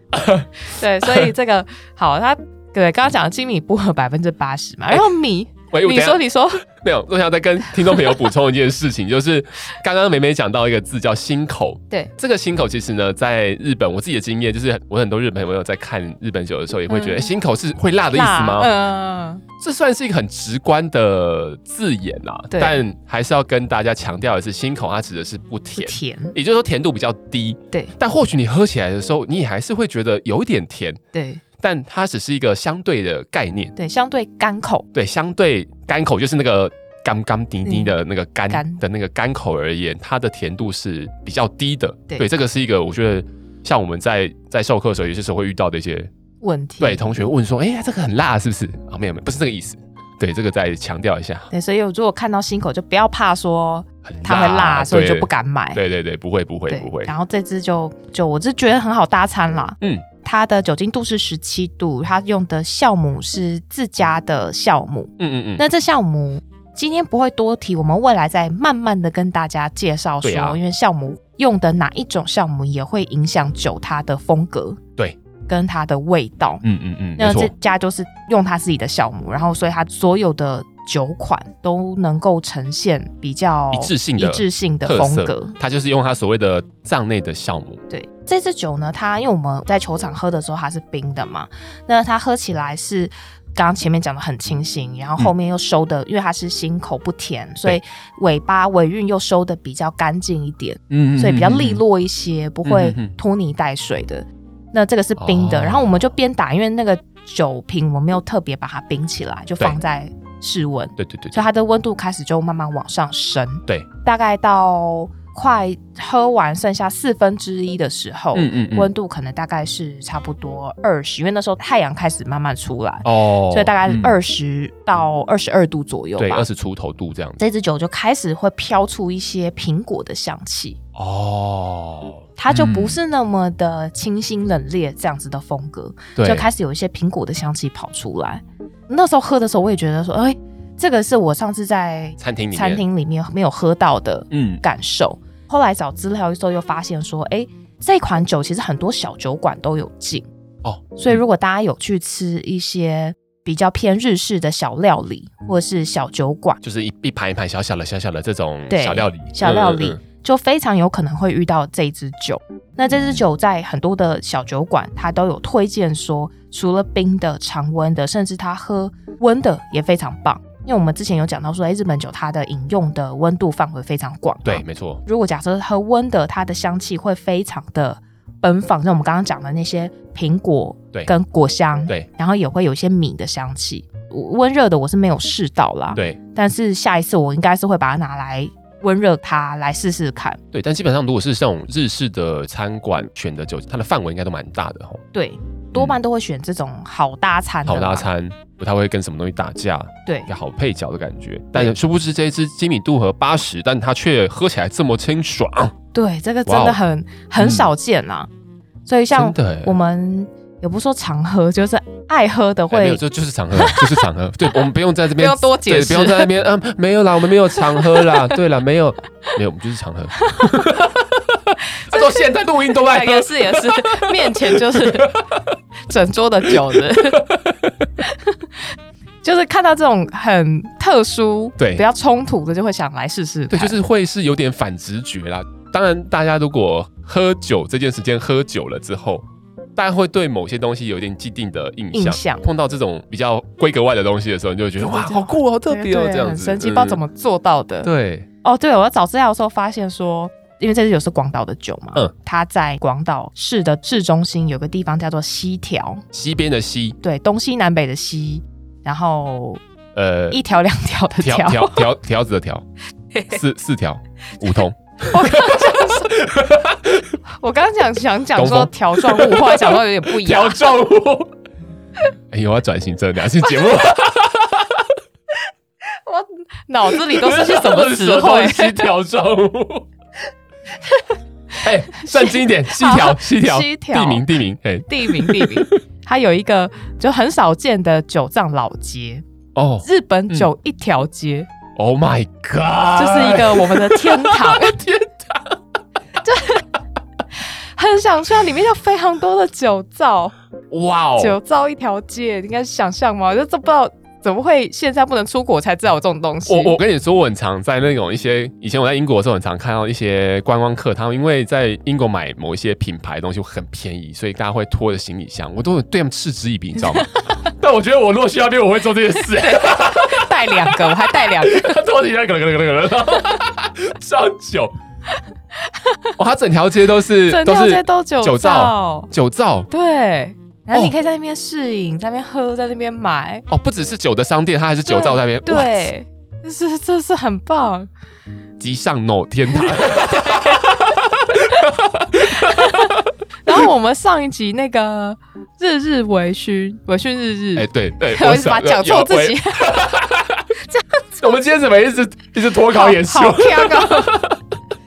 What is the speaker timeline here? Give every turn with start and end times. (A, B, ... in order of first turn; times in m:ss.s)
0:00.1-0:00.5 A
0:00.6-0:06.6 B
0:05.7-0:06.2 A
0:06.8-0:18.7 A
0:16.9-0:17.3 B
0:18.1-0:19.4 B
0:19.6-0:31.0 A
0:22.5-0:22.8 B
0:25.8-0:26.3 B
0:31.1-0:31.4 B
0:31.6-0:33.7 A
0:33.8-0:34.8 B
0:34.9-0:46.1 A
0:37.6-0:37.9 B
0:38.5-0:38.8 B
0:46.4-0:47.1 B
0:46.8-0:51.5 A
0:51.5-0:55.8 B
0:54.0-0:57.1 A
0:56.7-1:14.8 B
1:05.2-1:05.6 A
1:10.2-1:10.6 A
1:15.5-1:16.6 B
1:16.6-1:17.5 A
1:17.2-1:25.5 B
1:23.7-1:27.8 A
1:27.9-2:06.4 B
1:40.9-1:41.8 A
1:42.6-1:43.1 A
1:45.2-1:46.0 A
1:51.0-1:51.4 A
1:58.3-1:58.9 A
2:03.0-2:04.1 A
2:06.2-2:07.4 A
2:07.4-2:10.8 B
2:10.9-2:13.0 A
2:12.4-2:30.2 B
2:16.2-2:16.5 A
2:22.2-2:22.8 A
2:24.3-2:24.6 A
2:30.6-2:31.2 A
2:30.9-2:36.6 B
2:36.6-2:40.0 A
2:38.7-3:10.4 B
2:42.8-2:43.2 A
2:54.4-2:55.0 A
3:10.5-3:15.0 A
3:15.1-3:18.1 B
3:15.7-3:16.0 A
3:17.6-3:25.7 A
3:25.9-3:28.3 B
3:26.4-3:26.8 A
3:27.4-3:27.7 A
3:28.8-3:33.0 B
3:29.1-3:29.8 A
3:32.7-3:45.6 A
3:33.6-3:34.0 B
3:35.1-3:36.3 B
3:37.6-3:38.4 B
3:40.2-3:40.8 B
3:41.8-3:42.2 B
3:42.8-3:45.1 B
3:45.9-3:47.2 B
3:46.5-3:47.9 A
3:48.0-3:48.5 B
3:49.2-3:53.8 B
3:51.6-3:51.8 A
3:53.5-3:59.2 A
3:59.8-4:07.0 A
4:01.9-4:02.4 B
4:04.8-4:07.9 B
4:07.8-4:08.3 A
4:08.4-4:16.0 B
4:16.1-4:17.0 A
4:17.0-4:19.6 B
4:19.9-4:20.4 A
4:20.3-4:21.9 B
4:21.2-4:22.6 A
4:23.1-4:23.4 B
4:23.3-4:27.1 A
4:24.4-4:26.2 B
4:27.4-4:30.8 B
4:28.4-4:31.3 A
4:32.3-4:34.8 A
4:36.0-4:38.9 B
4:36.9-4:39.9 A
4:41.6-4:44.3 B
4:41.6-4:45.7 A
4:44.9-4:49.2 B
4:49.6-4:50.5 A
4:49.8-4:51.5 B
4:51.8-4:55.6 A
4:52.9-4:54.8 B
4:56.2-4:56.6 B
4:57.8-5:00.3 B
5:00.7-5:01.4 A
5:01.2-5:06.8 B
5:06.5-5:24.7 A
5:16.9-5:17.4 B
5:19.3-5:21.8 B
5:25.6-5:26.1 B
5:26.2-5:29.7 A
5:27.2-5:29.1 B
5:29.7-5:33.4 B
5:33.5-5:35.9 A
5:34.8-5:37.9 B
5:38.6-5:43.0 A
5:39.5-5:49.8 B
5:47.5-5:50.4 A
5:50.7-5:51.0 B
5:51.2-5:54.4 A
5:52.6-5:54.2 B